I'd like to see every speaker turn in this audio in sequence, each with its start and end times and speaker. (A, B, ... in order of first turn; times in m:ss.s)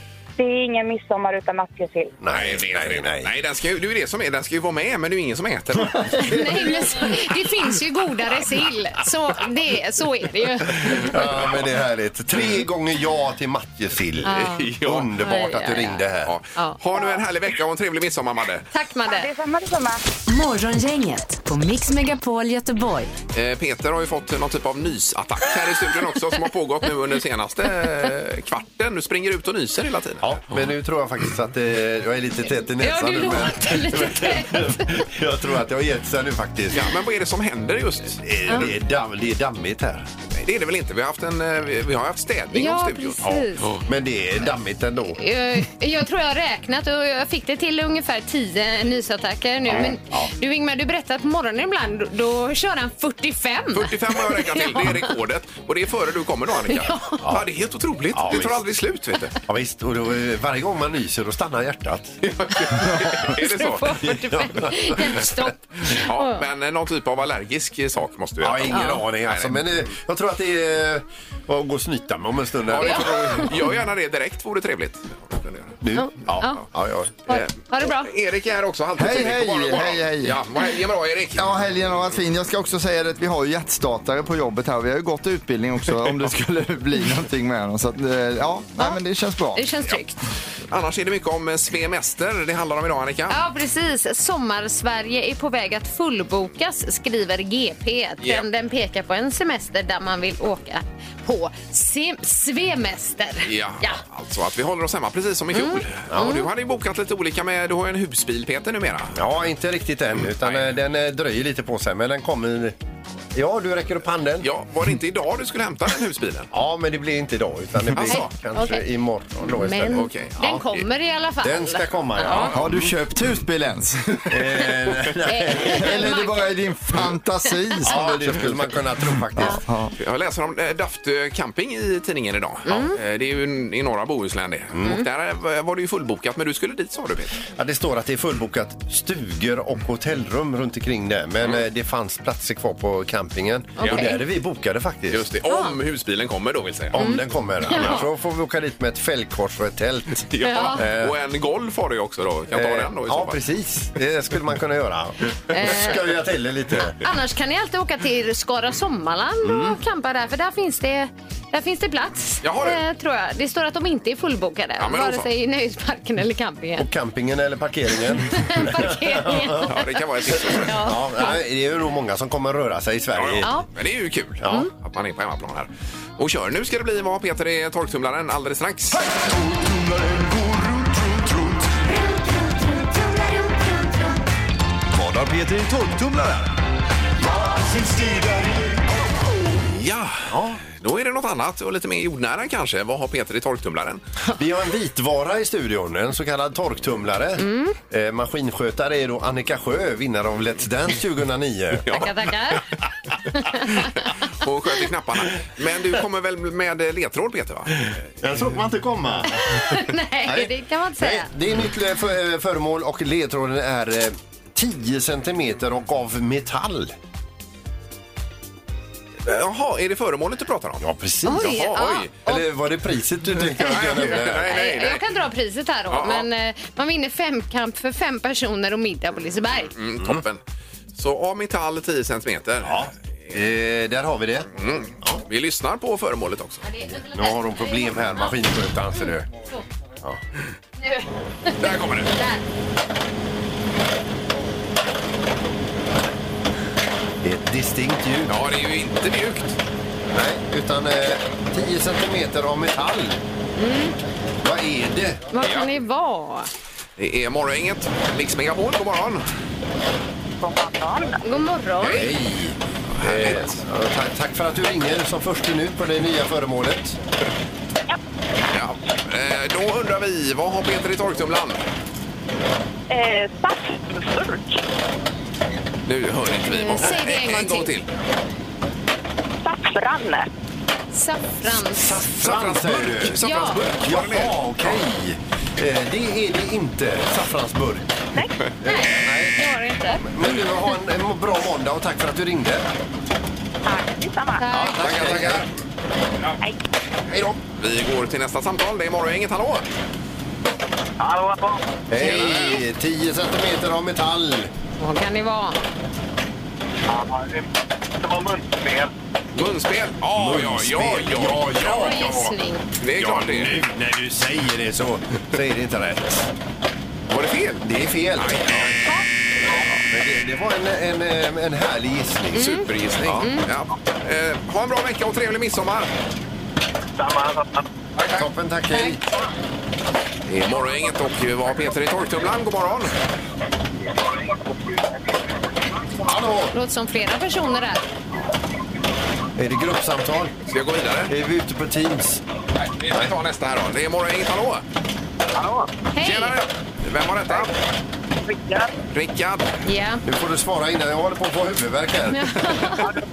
0:00.4-0:02.2 A
0:02.2-0:03.3 B
0:02.3-0:06.4 C
0:05.8-0:06.5 B
0:06.2-0:11.2 D
0:10.8-0:16.3 B
0:14.2-0:16.0 D
0:14.3-0:15.2 C
0:16.3-0:18.7 C
0:18.7-0:19.3 D
0:19.0-0:20.0 A
0:20.3-0:23.1 E
0:23.3-0:30.7 C
0:30.2-0:36.9 B
0:32.8-0:34.9 D
0:36.7-0:38.8 C
0:38.2-0:40.1 B
0:40.4-0:43.8 C
0:42.5-0:43.8 D
0:43.2-0:45.2 B
0:45.2-0:55.1 D
0:49.7-0:50.3 B
0:53.7-0:59.4 C
0:56.7-0:57.2 D
0:58.1-0:58.6 B
0:59.5-1:02.2 B
1:02.2-1:04.0 C
1:03.3-1:06.4 D
1:04.0-1:05.4 B
1:05.9-1:09.6 C
1:08.4-1:13.8 B
1:08.7-1:09.0 D
1:12.7-1:15.8 C
1:12.8-1:13.5 D
1:15.8-1:17.2 B
1:15.9-1:16.7 D
1:17.3-1:18.1 D
1:17.3-1:21.5 C
1:19.0-1:20.4 F
1:21.4-1:29.7 F
1:29.6-1:30.2 D
1:30.7-1:33.4 C
1:33.3-1:44.0 D
1:43.4-1:49.2 C
1:45.5-1:46.5 D
1:46.1-1:46.4 B
1:49.2-1:52.8 B
1:50.4-1:50.8 C
1:53.4-1:54.5 B
1:54.4-1:56.5 C
1:56.5-2:00.1 B
1:57.9-1:58.3 C
1:58.0-1:58.8 D
1:59.5-2:02.5 D
1:59.9-2:00.9 C
2:01.4-2:03.0 B
2:02.2-2:02.6 C
2:02.5-2:04.6 F
2:04.3-2:06.1 B
2:05.3-2:06.5 D
2:05.7-2:09.9 F
2:07.8-2:09.6 B
2:10.0-2:17.5 C
2:12.7-2:13.0 D
2:14.8-2:15.0 B
2:17.5-2:25.2 B
2:23.8-2:24.2 D
2:23.8-2:24.1 C
2:25.1-2:27.0 C
2:25.5-2:25.8 D
2:26.9-2:31.1 B
2:27.0-2:28.0 D
2:27.7-2:28.1 C
2:30.3-2:33.4 C
2:30.4-2:30.8 D
2:32.5-2:37.0 B
2:35.5-2:36.0 D
2:37.0-2:46.9 D
2:39.4-2:39.8 B
2:42.4-2:42.8 C
2:44.8-2:45.3 C
2:46.8-2:53.5 B
2:48.3-2:49.9 D
2:49.7-2:50.8 C
2:50.6-2:51.4 D
2:53.1-2:59.0 C
2:53.4-2:53.7 D
2:54.4-2:54.7 B
2:54.4-2:54.7 D
2:58.9-3:01.8 G
3:04.9-3:06.5 G
3:07.2-3:09.0 G
3:09.7-3:14.0 C
3:10.3-3:10.6 B
3:14.4-3:21.8 B
3:17.4-3:17.8 D
3:21.9-3:22.6 C
3:21.9-3:22.6 D
3:23.4-3:23.9 D
3:23.6-3:27.9 C
3:28.2-3:29.6 B
3:29.4-3:31.3 D
3:30.3-3:36.9 B
3:39.2-3:42.1 C
3:40.8-3:41.6 B
3:41.2-3:42.5 D
3:42.2-3:44.6 B
3:43.6-3:45.1 C
3:43.6-3:49.7 D
3:45.9-3:46.3 C
3:49.8-3:50.4 C
3:50.9-3:53.4 C
3:52.6-3:55.2 B
3:54.6-3:56.6 C
3:56.6-3:58.4 D
3:56.9-3:59.3 B
3:59.0-3:59.6 D
4:00.8-4:02.4 D
4:01.6-4:02.1 C
4:07.2-4:08.3 B
4:08.3-4:09.6 C
4:10.1-4:13.2 B
4:13.6-4:14.0 D
4:14.4-4:15.2 B
4:15.3-4:16.5 D
4:15.4-4:15.7 C
4:17.0-4:19.2 C
4:20.4-4:21.4 A
4:21.2-4:22.1 D
4:21.8-4:22.2 C
4:21.8-4:27.0 B
4:23.0-4:23.6 C
4:28.5-4:31.6 C
4:32.9-4:34.6 A
4:35.9-4:37.9 C
4:36.4-4:37.7 D
4:39.4-4:40.3 A
4:40.9-4:42.1 D
4:41.4-4:43.2 B
4:42.2-4:44.8 C
4:43.2-4:43.6 D
4:43.8-4:47.9 B
4:48.6-4:50.0 D
4:48.6-4:52.7 B
4:53.6-4:54.5 A
4:54.4-4:54.8 D
4:54.5-4:55.5 B
4:54.8-4:55.5 C
4:57.1-4:59.7 C
5:01.0-5:01.6 H
5:01.9-5:04.5 B
5:02.0-5:02.6 D
5:02.0-5:02.6 C
5:04.8-5:05.6 D
5:06.9-5:07.4 H
5:08.1-5:08.9 H
5:09.4-5:12.0 C
5:10.2-5:12.3 B
5:11.6-5:12.6 D
5:12.8-5:13.6 C
5:13.0-5:16.3 B
5:17.1-5:17.6 C
5:17.6-5:18.7 B
5:18.2-5:18.8 C
5:19.4-5:19.8 C
5:19.9-5:22.6 B
5:22.3-5:23.5 D
5:22.4-5:25.9 C
5:27.0-5:27.5 H
5:28.1-5:29.1 B
5:30.3-5:32.9 C
5:36.1-5:36.5 B
5:36.5-5:37.8 D
5:39.4-5:40.3 B
5:40.5-5:41.1 C
5:41.1-5:42.2 B
5:42.7-5:44.6 C
5:45.4-5:45.7 H
5:45.9-5:46.4 D
5:46.0-5:47.5 C
5:48.9-5:49.6 C
5:49.7-5:50.0 D
5:50.0-5:52.8 B
5:52.1-5:52.9 D